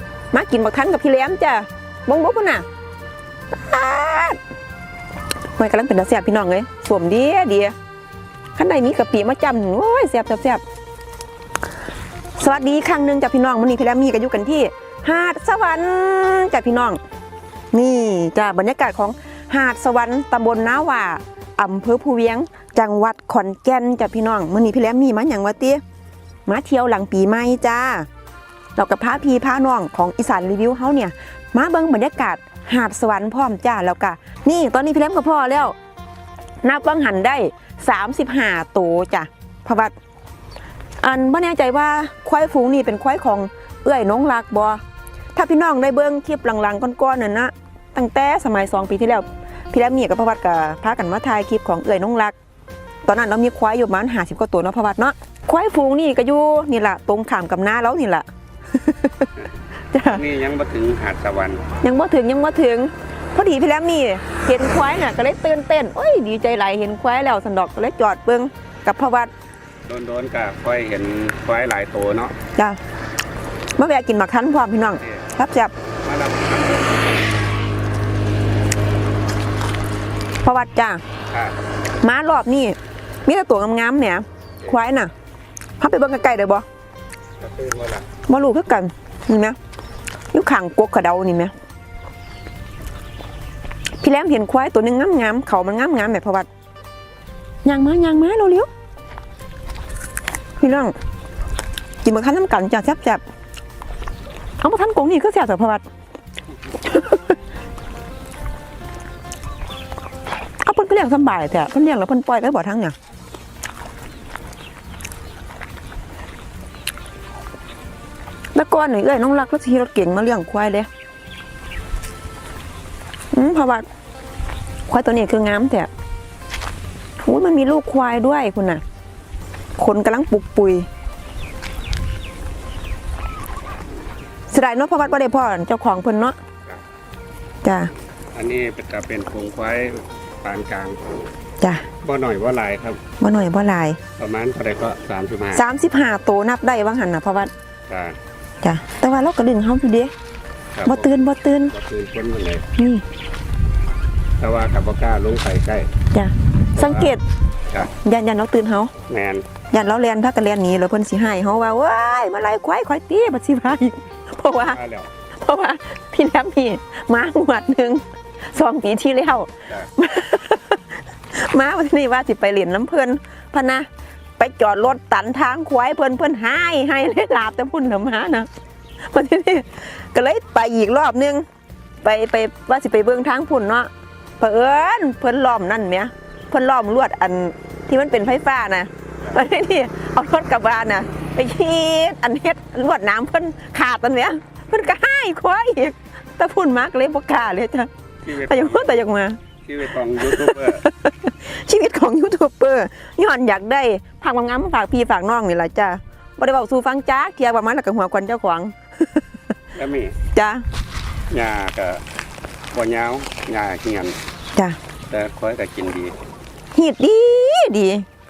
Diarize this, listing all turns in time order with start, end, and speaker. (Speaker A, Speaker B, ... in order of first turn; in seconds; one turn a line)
Speaker A: 0.3-2.6
Speaker A: 3.5-4.4
Speaker A: 5.5-7.7
Speaker A: 8.6-10.6
Speaker A: 12.3-17.0
Speaker A: 17.7-25.8
Speaker A: 26.4-28.1
Speaker A: 28.8-35.7
Speaker A: 36.6-39.9
Speaker A: 41.0-44.8
Speaker A: 45.3-52.3
Speaker A: 53.0-59.3
Speaker A: 59.9-60.2
Speaker B: 60.0-61.6
Speaker A: 61.8-69.3
Speaker B: 69.8-72.3
Speaker A: 73.8-75.7
Speaker B: 75.0-75.3
Speaker B: 76.0-77.2
Speaker A: 80.4-81.0
Speaker B: 81.3-81.5
Speaker A: 82.0-85.1
Speaker A: 85.8-86.7
Speaker B: 87.4-88.0
Speaker A: 88.3-89.6
Speaker A: 90.3-91.5
Speaker A: 94.0-96.5
Speaker A: 97.6-98.7
Speaker A: 100.6-100.9
Speaker A: 102.0-103.2
Speaker A: 104.6-105.8
Speaker A: 106.8-107.2
Speaker A: 110.6-112.9
Speaker A: 118.5-120.9
Speaker A: 123.3-123.8
Speaker A: 124.9-125.9
Speaker A: 127.2-128.8
Speaker A: 129.8-130.9
Speaker A: 134.5-136.4
Speaker A: 137.6-137.9
Speaker B: 138.3-141.0
Speaker A: 141.6-141.9
Speaker B: 142.0-143.0
Speaker A: 143.2-144.0
Speaker B: 144.2-145.6
Speaker A: 145.5-147.5
Speaker B: 147.9-148.2
Speaker A: 148.6-150.1
Speaker B: 150.7-151.1
Speaker A: 150.9-151.7
Speaker B: 151.7-152.7
Speaker A: 152.8-153.0
Speaker B: 154.4-155.9
Speaker A: 156.1-157.2
Speaker B: 156.8-157.2
Speaker A: 157.9-158.9
Speaker B: 159.1-159.4
Speaker A: 159.7-164.8
Speaker B: 164.7-165.1
Speaker A: 165.3-181.4
Speaker A: 182.0-197.9
Speaker B: 198.2-199.0
Speaker A: 198.5-199.4
Speaker B: 199.6-200.8
Speaker A: 200.2-209.2
Speaker B: 209.7-210.2
Speaker A: 210.3-210.6
Speaker B: 211.3-212.0
Speaker B: 212.7-214.2
Speaker B: 215.1-216.1
Speaker A: 216.7-218.1